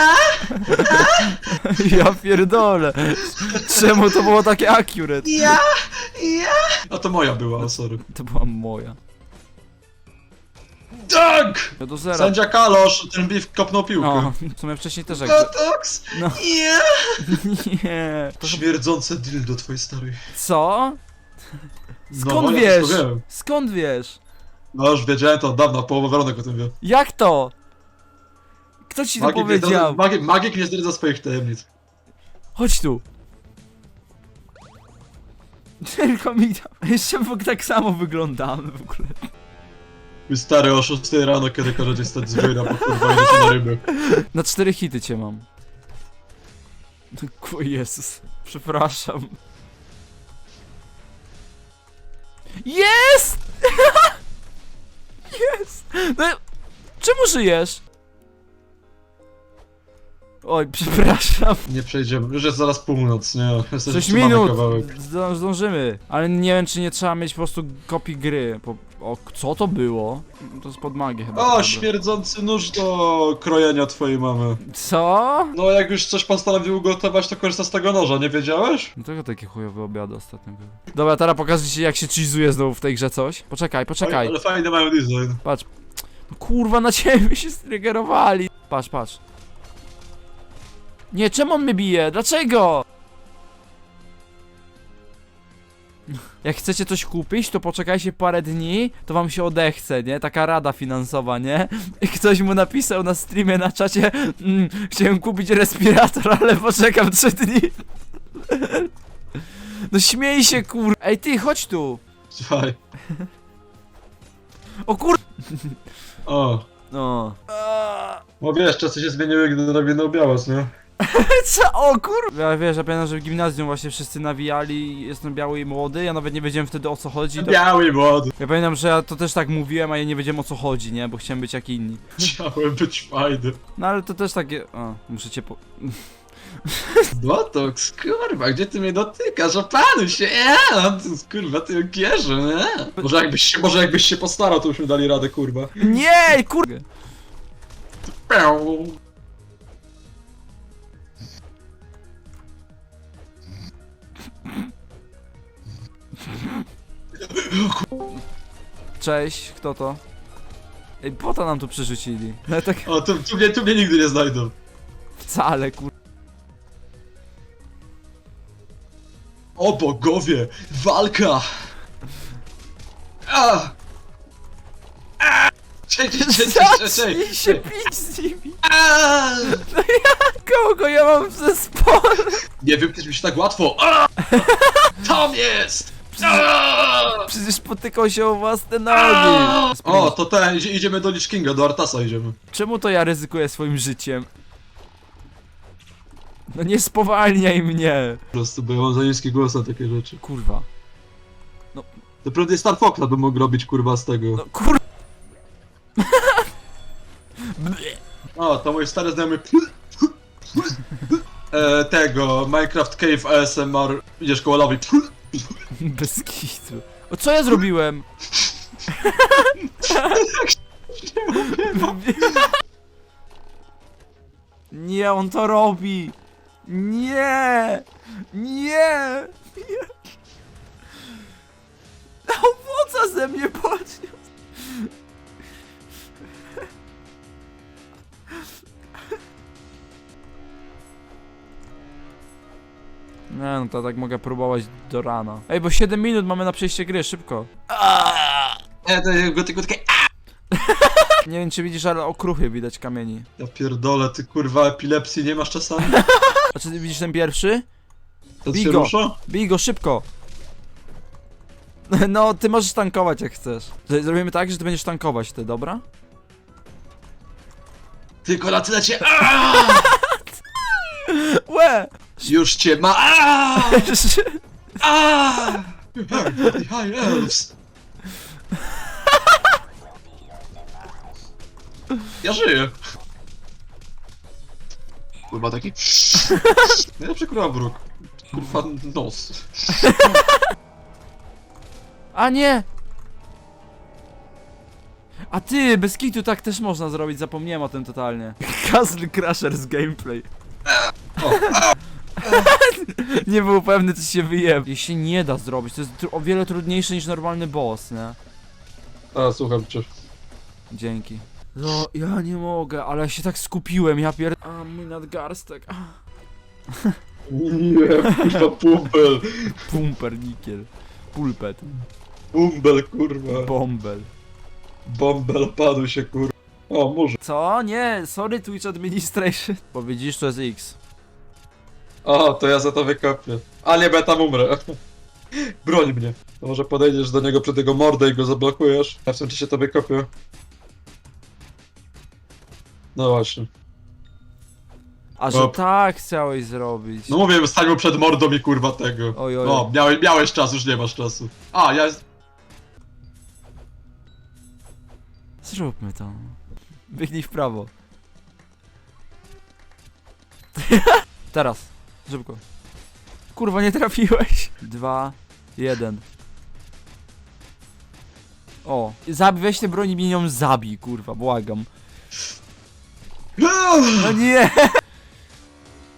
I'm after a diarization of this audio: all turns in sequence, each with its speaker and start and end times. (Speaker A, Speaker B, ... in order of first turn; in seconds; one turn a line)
Speaker A: 0.4-5.6
Speaker B: 3.5-4.1
Speaker B: 6.9-8.0
Speaker A: 8.0-9.0
Speaker B: 10.9-14.3
Speaker A: 11.8-12.3
Speaker A: 14.0-15.5
Speaker B: 15.1-17.4
Speaker A: 16.1-16.4
Speaker A: 17.2-18.6
Speaker B: 18.4-20.2
Speaker A: 20.3-21.0
Speaker A: 22.1-24.2
Speaker B: 22.1-23.2
Speaker B: 24.7-26.7
Speaker A: 26.8-27.5
Speaker A: 28.9-30.0
Speaker B: 29.2-31.7
Speaker A: 32.5-33.0
Speaker A: 35.8-39.2
Speaker B: 40.3-43.8
Speaker A: 42.8-43.5
Speaker A: 44.0-45.4
Speaker A: 47.1-49.4
Speaker A: 52.6-54.1
Speaker A: 55.3-56.4
Speaker A: 57.0-57.8
Speaker A: 60.4-61.6
Speaker B: 61.7-64.9
Speaker A: 63.9-71.9
Speaker B: 71.3-74.6
Speaker A: 74.6-75.5
Speaker B: 75.5-78.9
Speaker A: 79.0-84.3
Speaker B: 84.0-85.4
Speaker A: 85.4-85.7
Speaker A: 86.3-89.2
Speaker A: 91.1-92.8
Speaker A: 96.4-107.8
Speaker A: 108.3-112.0
Speaker B: 112.3-112.8
Speaker A: 114.8-115.8
Speaker B: 116.2-116.6
Speaker A: 116.9-118.2
Speaker B: 118.4-120.7
Speaker A: 121.0-127.6
Speaker B: 127.4-128.3
Speaker A: 128.4-132.3
Speaker B: 132.2-133.6
Speaker A: 133.8-137.1
Speaker B: 137.1-145.9
Speaker A: 145.8-146.8
Speaker B: 148.3-149.0
Speaker A: 156.2-156.6
Speaker B: 157.2-157.8
Speaker A: 159.0-160.0
Speaker A: 161.0-162.9
Speaker B: 162.8-164.5
Speaker A: 165.2-165.9
Speaker B: 169.6-171.7
Speaker B: 173.3-173.7
Speaker B: 175.2-177.6
Speaker A: 176.1-178.6
Speaker B: 178.6-179.6
Speaker A: 179.4-182.4
Speaker B: 182.6-184.3
Speaker A: 184.3-184.9
Speaker B: 185.0-187.3
Speaker A: 186.1-186.4
Speaker A: 187.2-190.2
Speaker B: 188.9-192.3
Speaker A: 192.5-194.3
Speaker A: 196.5-198.2
Speaker B: 198.3-200.2
Speaker A: 200.2-200.7
Speaker B: 202.2-204.4
Speaker A: 204.4-204.8
Speaker A: 206.0-206.5
Speaker A: 207.4-208.0
Speaker B: 208.3-215.6
Speaker A: 215.8-218.1
Speaker A: 218.9-220.2
Speaker B: 219.8-222.5
Speaker A: 221.3-222.5
Speaker A: 224.7-229.9
Speaker A: 232.2-234.9
Speaker A: 243.3-248.6
Speaker B: 248.8-250.1
Speaker A: 250.6-253.3
Speaker B: 253.4-256.0
Speaker A: 255.9-257.6
Speaker B: 258.4-259.2
Speaker A: 258.5-260.0
Speaker A: 261.9-265.8
Speaker B: 268.2-269.9
Speaker A: 269.6-270.2
Speaker A: 270.9-272.3
Speaker B: 272.2-273.9
Speaker A: 273.6-274.4
Speaker B: 274.8-277.5
Speaker B: 282.2-282.8
Speaker B: 285.3-286.2
Speaker B: 287.0-289.9
Speaker A: 289.8-290.4
Speaker A: 292.1-292.6
Speaker A: 295.3-300.3
Speaker B: 301.2-301.7
Speaker A: 301.2-308.2
Speaker B: 302.2-302.5
Speaker B: 309.1-309.9
Speaker A: 310.7-316.0
Speaker B: 317.3-319.6
Speaker A: 318.1-318.5
Speaker A: 319.5-321.7
Speaker B: 322.3-323.5
Speaker A: 323.3-324.1
Speaker B: 324.9-327.2
Speaker A: 327.2-330.8
Speaker B: 332.0-334.8
Speaker B: 335.6-340.1
Speaker B: 342.9-343.5
Speaker A: 345.2-347.2
Speaker B: 345.3-345.6
Speaker B: 347.1-352.0
Speaker A: 349.1-349.7
Speaker A: 355.4-356.4
Speaker A: 356.9-357.7
Speaker A: 360.6-362.4
Speaker A: 363.3-366.0
Speaker A: 368.6-371.7
Speaker B: 373.4-374.2
Speaker A: 373.9-374.8